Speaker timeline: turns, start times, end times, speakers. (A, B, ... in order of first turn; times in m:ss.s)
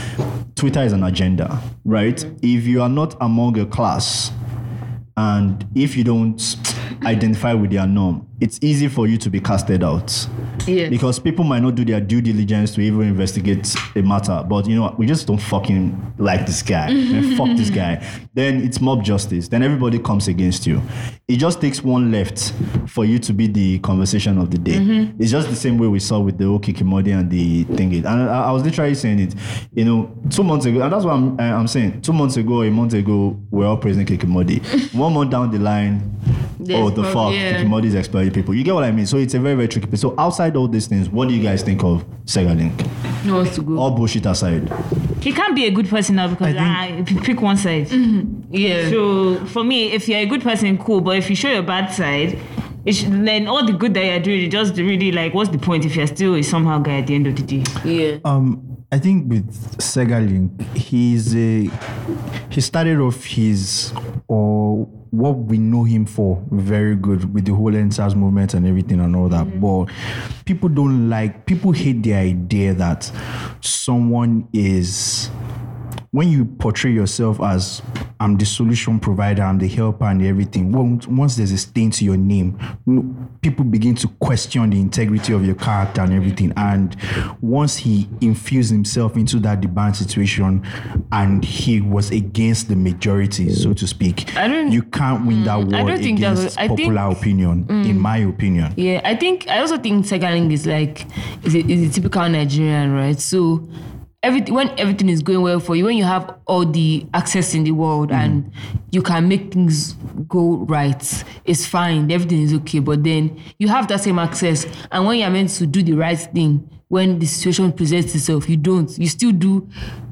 0:00.6-0:04.3 A
0:05.2-0:10.3 A
0:10.7-0:11.0 B
0:10.9-0:36.1 A
0:16.9-0:17.8 B
0:24.7-0:25.1 B
0:36.6-0:37.8 B
0:36.7-0:42.9 A
0:43.2-0:43.9 B
0:43.7-0:44.7 A
0:45.2-0:48.0 C
0:46.4-0:46.8 D
0:47.9-0:49.0 B
0:48.8-0:57.7 C
0:57.8-0:58.2 B
0:58.2-1:01.7 D
1:02.5-1:09.9 D
1:10.4-1:15.3 D
1:16.1-1:38.8 D
1:34.4-1:37.1 B
1:37.7-1:38.1 B
1:38.8-1:43.7 B
1:44.2-1:59.7 B